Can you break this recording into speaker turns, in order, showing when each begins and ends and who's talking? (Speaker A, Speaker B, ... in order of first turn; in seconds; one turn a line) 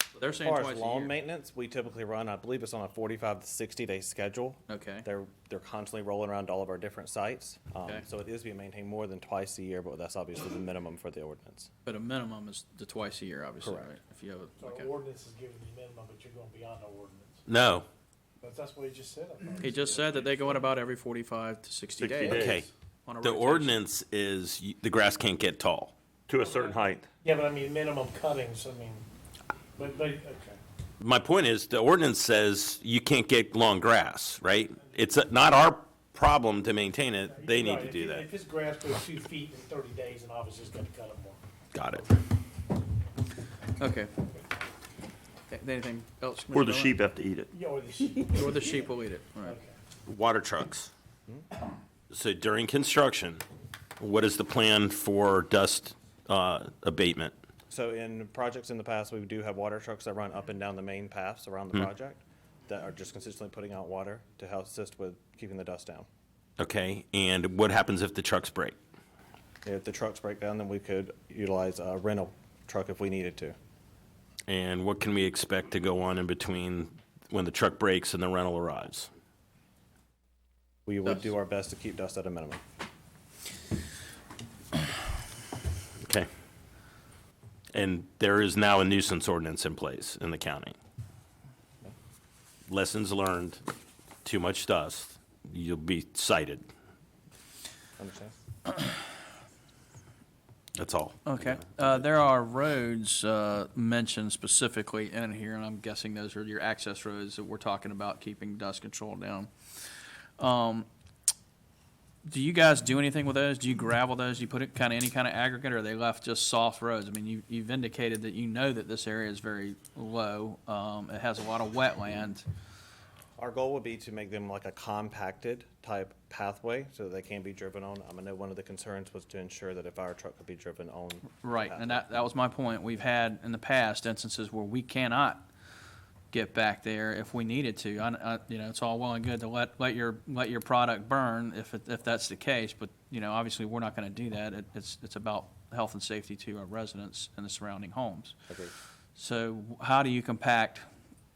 Speaker A: 0.2-1.1
Speaker B: 0.4-11.7
Speaker A: 4.7-5.1
Speaker A: 11.9-14.9
Speaker B: 13.6-13.9
Speaker C: 14.6-17.4
Speaker D: 17.5-17.9
Speaker C: 18.4-20.1
Speaker A: 19.6-23.8
Speaker E: 22.0-22.7
Speaker D: 22.2-22.7
Speaker D: 23.2-27.0
Speaker E: 26.3-27.1
Speaker C: 27.2-29.0
Speaker C: 29.8-30.6
Speaker D: 31.0-38.3
Speaker C: 37.4-41.4
Speaker D: 41.7-42.1
Speaker A: 43.8-44.2
Speaker A: 45.5-47.0
Speaker E: 46.5-47.5
Speaker C: 47.5-48.7
Speaker A: 48.3-49.6
Speaker C: 49.5-49.8
Speaker D: 50.1-50.9
Speaker D: 52.1-53.4
Speaker D: 54.0-57.3
Speaker B: 57.7-66.1
Speaker D: 66.6-68.8
Speaker B: 69.7-73.6
Speaker D: 74.5-79.1
Speaker B: 80.9-82.6
Speaker D: 86.0-86.3
Speaker D: 87.7-90.8
Speaker D: 92.7-93.6
Speaker D: 94.2-96.7
Speaker B: 98.0-98.3
Speaker D: 100.8-101.8
Speaker A: 101.3-109.5
Speaker A: 110.4-110.9
Speaker A: 112.2-122.5
Speaker B: 123.4-132.1
Speaker A: 131.4-135.5
Speaker A: 136.3-148.4
Speaker A: 149.2-150.9